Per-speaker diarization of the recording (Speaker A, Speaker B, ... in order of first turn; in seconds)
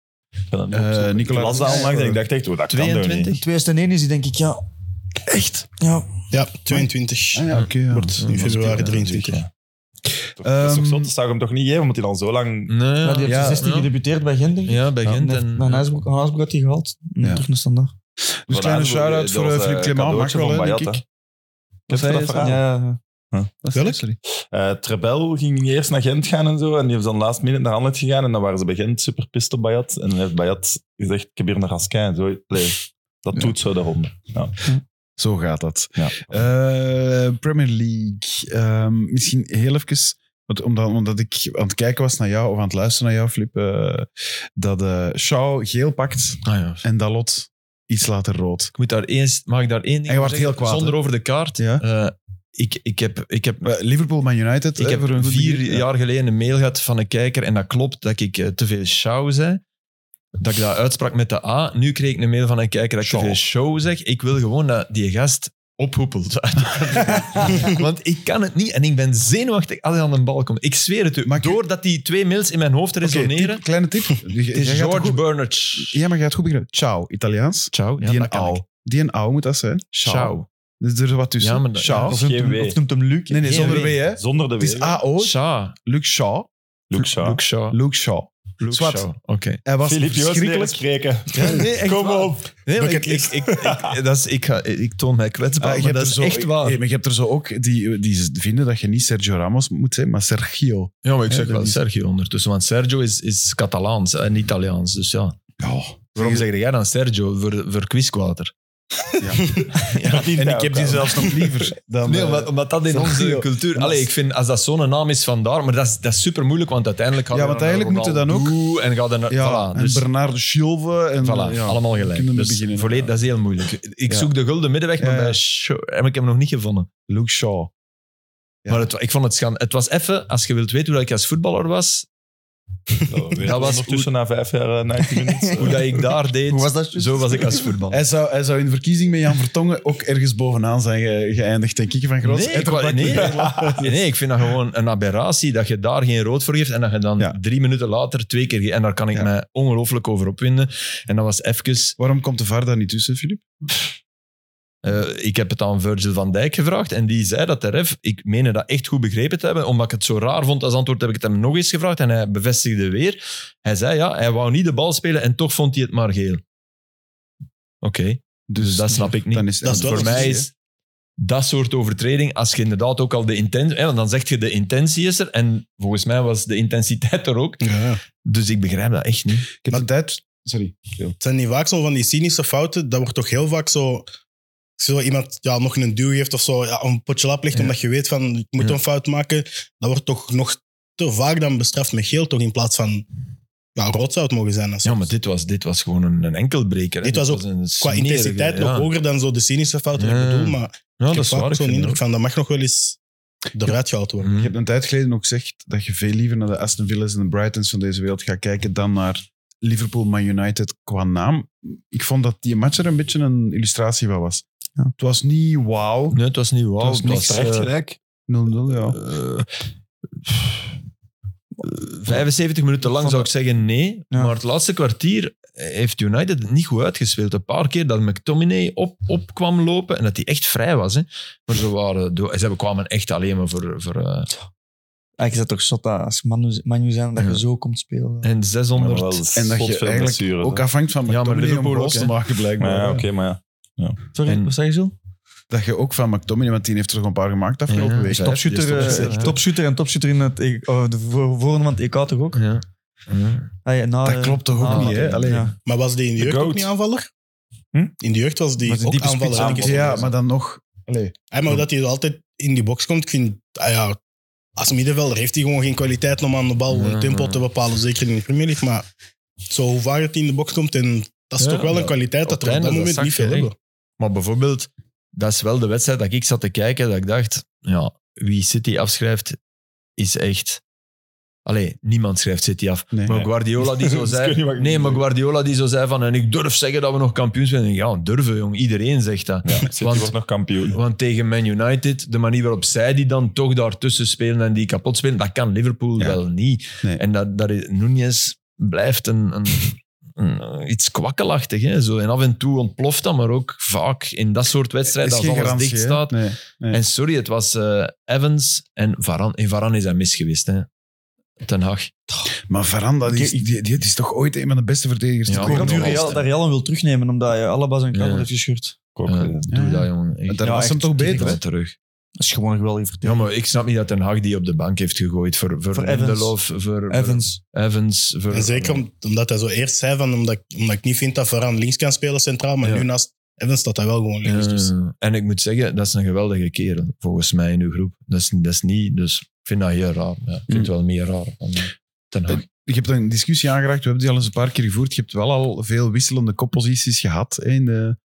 Speaker A: 0.5-3.3, 9.2-9.5, 10.4-12.7, 18.5-21.0, 21.9-22.6, 24.5-34.6, 82.1-82.8, 84.1-85.0, 86.9-87.4, 89.8-93.0, 93.5-93.9, 109.9-111.3, 133.1-135.9, 143.1-143.8, 216.8-218.0, 238.8-240.7, 242.6-244.0, 256.2-256.7, 259.3-260.1, 283.1-285.0, 289.4-290.8, 318.9-319.5
Speaker B: 0.7-2.2, 5.3-5.6, 7.3-8.6, 10.4-11.1, 13.2-13.7, 18.4-21.0, 21.9-22.6, 23.6-24.2, 35.2-48.7, 50.1-51.0, 51.6-51.8, 53.6-55.9, 63.0-63.4, 71.2-71.6, 73.0-75.2, 75.8-82.2, 83.3-86.5, 87.7-89.1, 89.6-90.8, 95.6-101.8, 105.6-106.4, 109.2-109.6, 110.3-114.1, 117.3-118.6, 119.3-123.1, 125.0-125.4, 127.1-127.7, 137.9-143.9, 152.0-153.7, 168.5-170.5, 179.6-181.1, 204.3-214.4, 215.0-216.2, 218.3-219.0, 239.3-243.1, 245.5-249.4, 254.0-255.5, 258.7-261.1, 282.9-283.2, 304.9-306.8, 312.5-316.1, 319.5-321.4, 342.3-348.0
Speaker C: 2.7-3.4, 7.5-9.3, 12.7-13.9, 14.7-15.8, 46.4-46.8, 48.8-53.7, 54.8-59.6, 60.4-73.6, 74.5-76.0, 77.7-78.6, 79.9-80.5, 81.4-82.1, 83.4-84.0, 85.2-85.8, 87.0-87.8, 88.6-89.6, 91.3-96.8, 101.0-105.3, 106.1-108.5, 109.8-110.3, 112.0-120.1, 121.2-126.9, 128.7-132.1, 133.4-134.1, 135.6-138.0, 142.2-152.0, 154.8-166.4, 167.8-170.5, 171.2-177.7, 178.2-179.6, 194.8-198.9, 200.0-202.0, 204.2-204.5, 216.1-217.7, 218.8-219.5, 220.2-220.7, 221.6-234.3, 238.2-239.2, 241.1-242.1, 244.2-244.5, 247.7-249.4, 252.3-253.5, 254.7-255.3, 266.7-267.4, 271.4-279.4, 280.0-280.6, 281.4-290.1, 290.7-310.7, 311.4-311.9, 315.3-316.2, 317.9-318.3, 319.0-321.7, 323.0-328.8, 334.2-342.4
Speaker D: 3.3-4.6, 5.8-6.1, 13.0-17.9, 22.4-23.0, 82.1-83.9, 135.1-135.5, 136.5-137.6, 222.9-223.3, 235.2-238.3, 244.1-244.9, 248.1-252.4, 253.6-255.5, 258.7-259.5, 313.1-313.5, 315.4-318.7, 320.4-321.3, 322.2-323.2, 325.7-326.3, 326.9-327.4
Speaker E: 6.3-9.4, 23.7-24.0, 92.8-93.1, 169.6-170.4, 177.6-178.0, 181.2-184.1, 184.8-193.1, 193.8-195.1, 197.0-203.0, 203.5-204.3, 255.6-257.1, 258.0-260.1, 261.3-264.0, 264.6-268.8, 269.4-273.5, 328.3-334.7